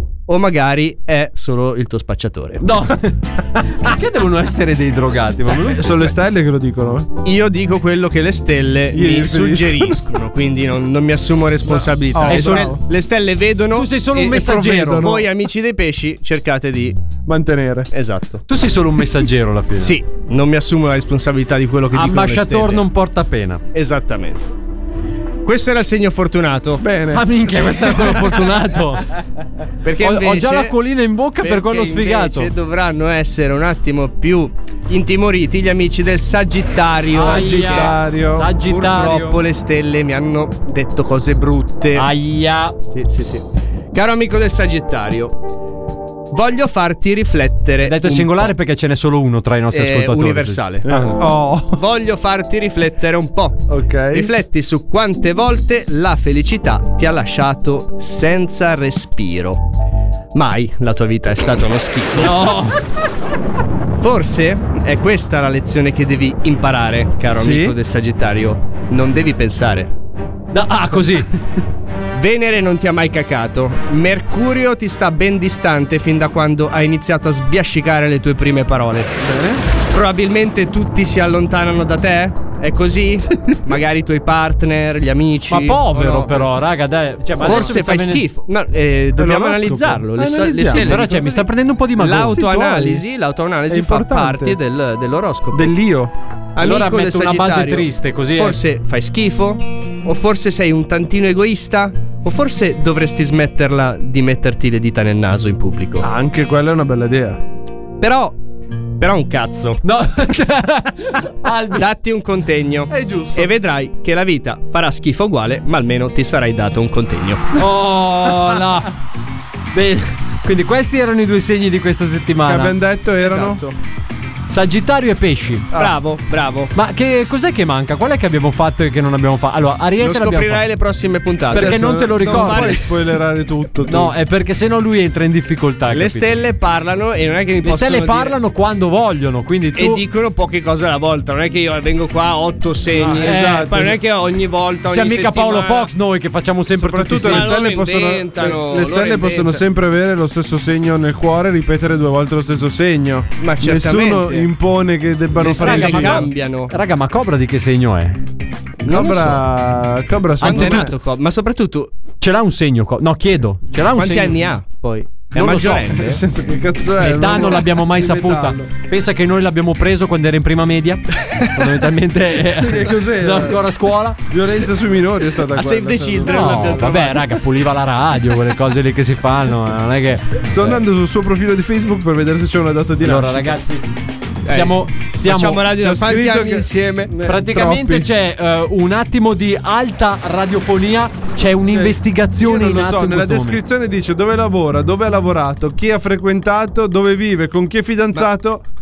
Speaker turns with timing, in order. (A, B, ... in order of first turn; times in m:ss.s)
0:00.3-0:02.6 A
0:02.6-0:05.9 B
0:05.6-0:07.1 C
0:07.2-0:17.0 A
0:08.9-0:10.0 C
0:11.6-0:12.8 C
0:12.3-0:12.8 B
0:13.7-0:15.1 B
0:14.3-0:15.3 C
0:17.3-0:17.9 C
0:17.9-0:18.4 A
0:18.5-0:20.0 B
0:19.8-0:22.9 A
0:22.0-0:23.6 B
0:23.7-0:24.4 A
0:25.4-0:26.8 A
0:26.8-0:28.4 C
0:27.1-0:29.1 B
0:29.8-0:30.8 A
0:30.0-0:32.5 B
0:31.4-0:38.0 A
0:37.1-0:38.5 C
0:37.2-0:39.4 B
0:38.6-0:42.1 A
0:42.0-0:42.8 B
0:42.9-0:45.4 A
0:46.3-0:48.5 A
0:47.8-0:51.1 B
0:49.7-0:50.9 A
0:50.9-0:51.8 C
0:51.7-0:59.6 A
0:53.7-0:54.3 C
1:00.3-1:02.5 A
1:02.2-1:02.8 B
1:04.0-1:09.9 A
1:07.3-1:07.8 C
1:10.5-1:11.3 B
1:12.1-1:19.2 A
1:19.2-1:19.6 C
1:19.9-1:26.5 A
1:25.5-1:28.2 B
1:27.4-1:35.8 A
1:29.2-1:31.0 C
1:30.2-1:33.0 B
1:33.7-1:34.6 C
1:35.5-1:36.1 C
1:36.6-1:46.1 A
1:36.6-1:38.6 B
1:46.0-1:47.4 C
1:48.0-1:48.4 A
1:49.0-1:49.8 A
1:49.8-1:51.8 B
1:51.7-1:57.5 A
1:52.9-1:53.5 C
1:57.6-1:58.9 B
1:59.7-2:02.7 B
2:02.4-2:03.6 C
2:03.2-2:03.8 A
2:04.5-2:05.7 B
2:05.7-2:06.7 A
2:06.7-2:10.6 B
2:10.0-2:12.9 A
2:11.5-2:12.8 B
2:11.5-2:14.1 C
2:13.9-2:16.4 B
2:15.9-2:18.4 A
2:17.6-2:20.0 B
2:19.8-2:25.9 A
2:22.9-2:24.0 C
2:23.2-2:23.7 B
2:24.9-2:27.6 B
2:26.8-2:36.3 C
2:27.3-2:29.6 A
2:33.4-2:34.5 A
2:35.4-2:36.7 A
2:35.4-2:38.2 B
2:38.8-2:39.4 A
2:38.9-2:40.9 C
2:40.4-2:40.9 B
2:40.4-2:41.9 A
2:42.2-2:44.4 B
2:43.9-2:46.2 A
2:45.3-2:45.8 B
2:45.4-2:48.7 C
2:47.0-2:54.2 B
2:52.4-2:53.6 C
2:54.3-2:57.1 C
2:55.5-2:57.4 A
2:56.3-3:00.7 B
3:00.5-3:03.5 C
3:03.0-3:03.8 B
3:04.4-3:07.1 A
3:04.5-3:05.6 B
3:05.8-3:08.1 C
3:07.3-3:13.6 B
3:11.7-3:18.6 C